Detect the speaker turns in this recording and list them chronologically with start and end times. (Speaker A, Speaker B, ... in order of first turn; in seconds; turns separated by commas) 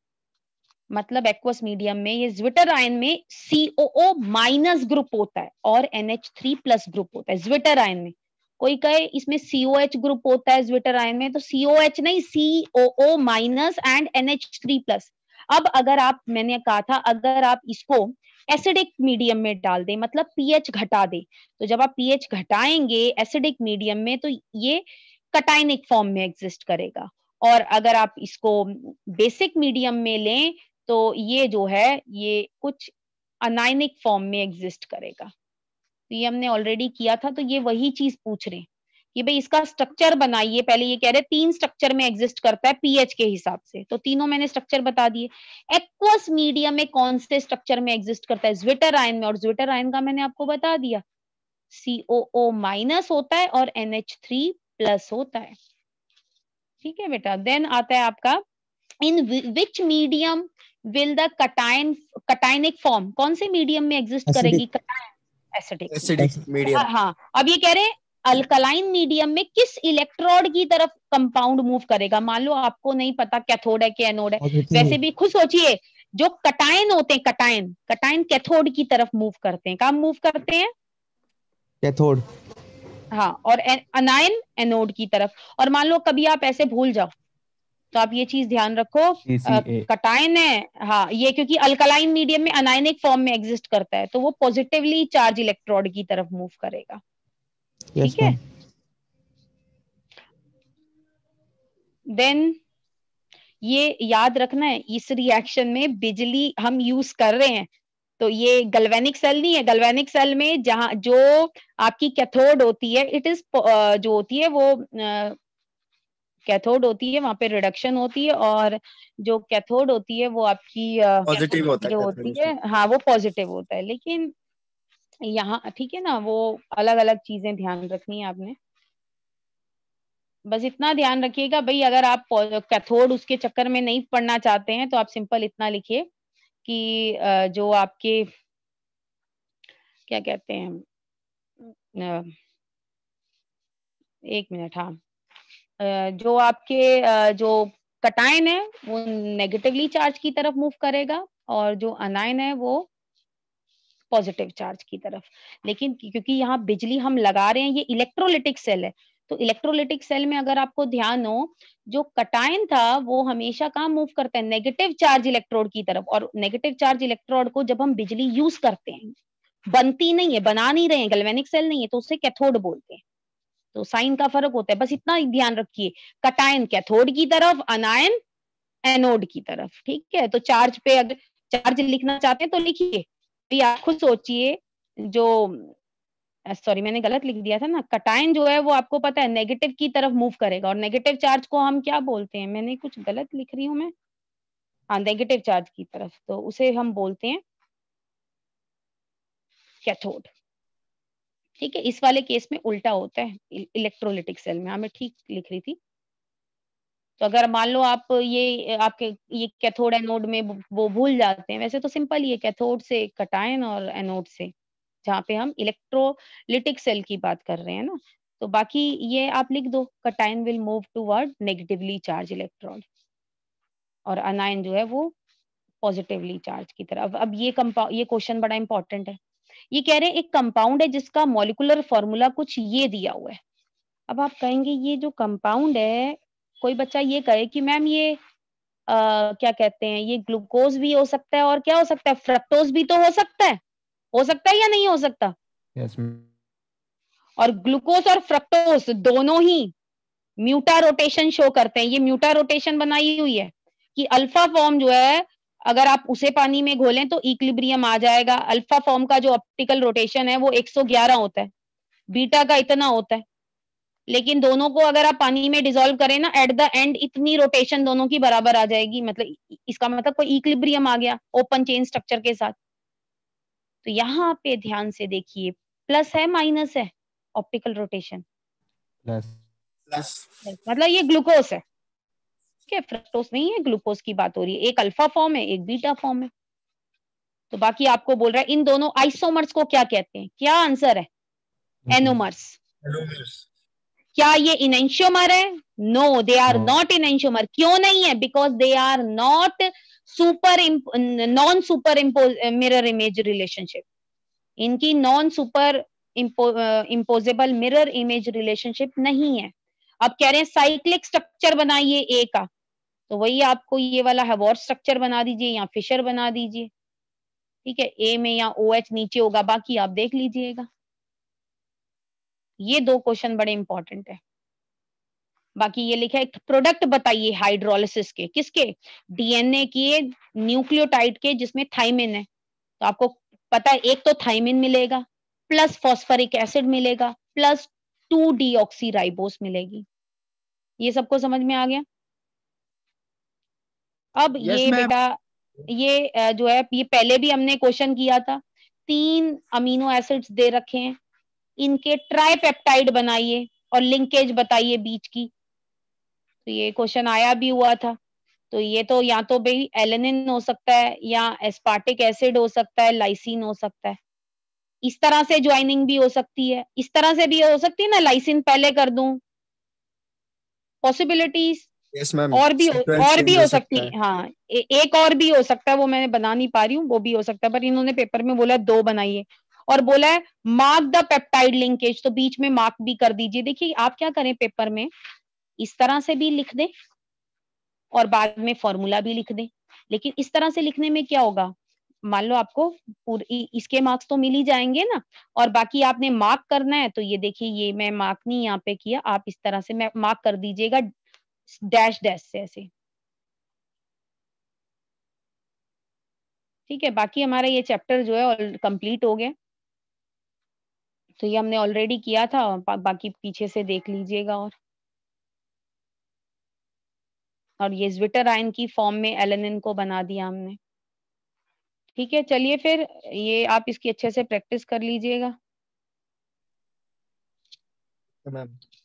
Speaker A: 0.9-35.3, Speaker A: 36.1-51.0, Speaker A: 51.7-55.5, Speaker A: 56.8-58.4, Speaker A: 59.0-66.2, Speaker B: 64.3-64.7, Speaker C: 65.9-66.9, Speaker A: 66.7-80.7, Speaker B: 74.4-75.0, Speaker B: 81.8-82.2, Speaker A: 83.1-87.1, Speaker A: 87.9-97.0, Speaker D: 89.3-89.9, Speaker B: 98.0-98.4, Speaker A: 98.0-98.4, Speaker A: 102.1-102.6, Speaker A: 103.6-107.7, Speaker A: 108.2-115.4, Speaker A: 116.5-124.3, Speaker C: 121.3-122.5, Speaker A: 125.2-128.6, Speaker A: 130.5-136.1, Speaker A: 136.7-138.3, Speaker A: 140.1-140.8, Speaker A: 141.9-142.3, Speaker A: 144.3-145.0, Speaker A: 145.8-152.9, Speaker A: 154.1-169.1, Speaker A: 169.7-173.0, Speaker A: 173.7-178.2, Speaker A: 178.8-185.7, Speaker A: 186.5-193.9, Speaker A: 194.9-197.4, Speaker A: 199.8-200.3, Speaker A: 201.6-205.8, Speaker A: 207.2-214.5, Speaker A: 215.0-222.8, Speaker A: 224.1-225.1, Speaker A: 225.8-229.2, Speaker A: 229.7-233.4, Speaker A: 234.1-238.2, Speaker A: 238.9-243.6, Speaker A: 244.1-245.3, Speaker D: 245.8-246.3, Speaker A: 247.4-249.7, Speaker A: 250.4-261.5, Speaker A: 262.1-263.2, Speaker A: 264.1-272.6, Speaker A: 273.8-278.2, Speaker D: 279.1-279.4, Speaker C: 279.9-280.2, Speaker A: 280.4-281.6, Speaker A: 282.7-286.3, Speaker A: 287.5-291.1, Speaker D: 291.9-292.2, Speaker A: 291.9-292.6, Speaker C: 292.8-293.4, Speaker A: 294.1-303.9, Speaker D: 296.5-296.8, Speaker A: 304.6-312.5, Speaker A: 313.1-316.7, Speaker A: 317.6-320.7, Speaker A: 322.6-324.2, Speaker A: 325.6-332.3, Speaker A: 332.8-339.9, Speaker A: 340.8-341.9, Speaker A: 344.2-351.0, Speaker C: 344.4-344.9, Speaker A: 351.6-355.3, Speaker A: 356.5-358.0, Speaker A: 358.5-364.0, Speaker A: 364.8-369.2, Speaker A: 370.8-371.7, Speaker C: 371.9-373.9, Speaker A: 372.3-384.9, Speaker A: 385.6-386.7, Speaker A: 387.9-391.5, Speaker A: 392.1-400.9, Speaker A: 401.5-402.7, Speaker A: 406.7-409.3, Speaker A: 411.2-414.5, Speaker A: 417.6-420.6, Speaker A: 422.0-425.4, Speaker C: 428.2-428.6